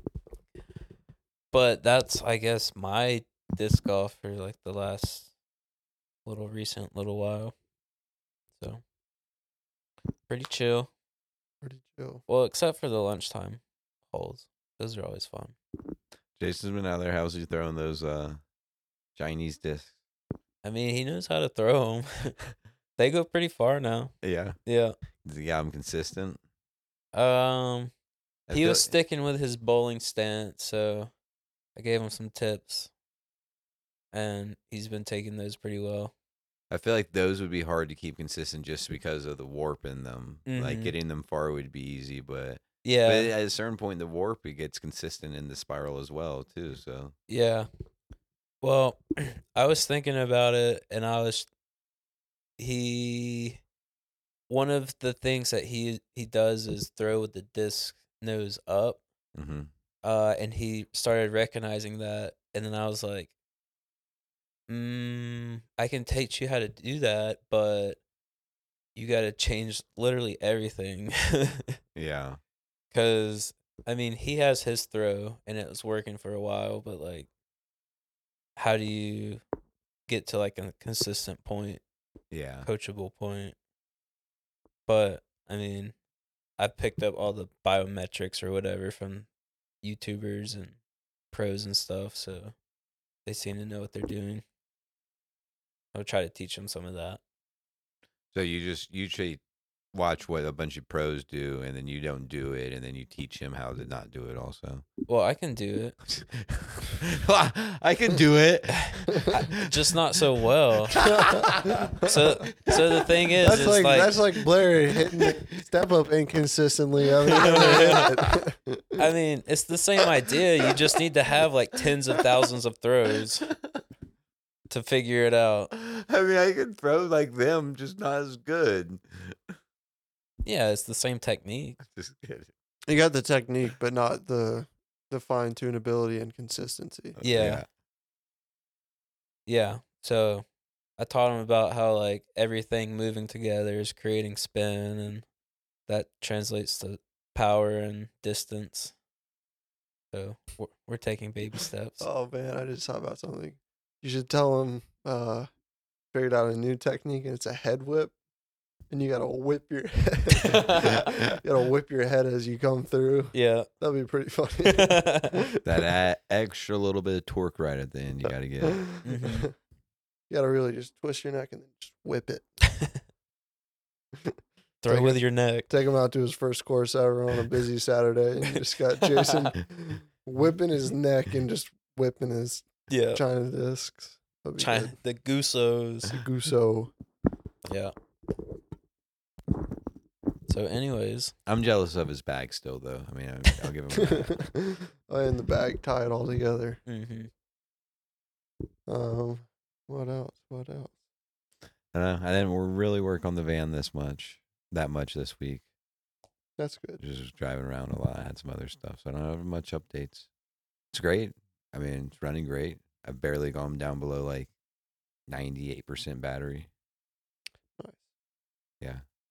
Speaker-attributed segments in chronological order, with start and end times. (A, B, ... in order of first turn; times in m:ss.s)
0:01.5-0:05.3 A
0:06.2-0:07.5 A
0:10.3-0:10.9 A
0:11.6-0:12.2 B
0:12.3-0:15.5 A
0:16.4-0:18.4 C
0:19.2-0:19.9 C
0:20.6-0:22.4 A
0:23.0-0:24.1 A
0:24.2-0:24.6 C
0:24.6-0:24.9 A
0:25.2-0:26.4 C
0:27.1-0:27.9 A
0:28.5-0:28.9 C
0:28.5-0:31.1 A
0:31.8-0:32.9 A
0:34.1-0:36.1 A
0:36.7-0:47.1 C
0:40.5-0:41.0 A
0:42.8-0:43.3 A
0:47.3-0:47.7 A
0:48.6-0:51.5 A
0:52.6-0:53.6 A
0:54.5-0:59.0 A
0:59.3-0:59.7 C
1:00.0-1:03.3 A
1:04.7-1:08.0 A
1:08.9-1:11.8 A
1:11.9-1:12.4 C
1:12.9-1:17.3 A
1:18.6-1:19.4 A
1:20.1-1:21.8 A
1:22.3-1:22.7 C
1:22.6-1:23.6 A
1:24.9-1:25.9 A
1:26.6-1:29.3 A
1:29.8-1:30.8 A
1:31.3-1:32.5 A
1:33.2-1:34.4 A
1:35.9-1:37.2 A
1:38.3-1:39.4 C
1:39.9-1:44.8 C
1:45.1-1:45.9 A
1:46.1-1:49.6 C
1:48.8-1:51.0 A
1:50.9-1:53.3 C
1:51.0-1:52.2 B
1:52.0-1:54.2 A
1:53.4-1:59.0 B
1:55.2-1:55.4 C
1:57.3-1:58.0 A
1:57.4-1:57.9 C
1:59.0-2:03.4 A
2:03.4-2:03.8 C
2:04.7-2:05.7 A
2:05.7-2:09.4 C
2:10.4-2:11.8 A
2:11.8-2:12.5 C
2:12.9-2:17.2 B
2:17.2-2:17.7 C
2:17.2-2:17.6 A
2:19.5-2:20.4 A
2:21.0-2:25.2 A
2:25.9-2:28.9 A
2:30.1-2:32.1 A
2:32.0-2:35.5 B
2:36.1-2:38.1 B
2:38.9-2:45.8 B
2:40.3-2:41.0 A
2:40.9-2:41.4 C
2:43.3-2:43.7 A
2:44.6-2:45.4 A
2:45.6-2:48.9 C
2:48.2-2:49.5 B
2:49.0-2:49.5 A
2:50.3-2:52.4 B
2:54.8-2:55.7 A
2:54.9-3:04.9 B
2:59.0-2:59.5 A
3:02.9-3:03.2 A
3:04.6-3:06.2 A
3:06.1-3:06.9 B
3:07.7-3:07.9 A
3:10.5-3:11.3 A
3:11.4-3:14.4 C
3:13.9-3:16.8 B
3:16.9-3:17.3 A
3:18.9-3:21.0 B
3:21.9-3:25.6 C
3:26.6-3:27.0 B
3:27.0-3:30.3 C
3:30.9-3:34.5 C
3:35.3-3:36.7 C
3:37.8-3:38.0 B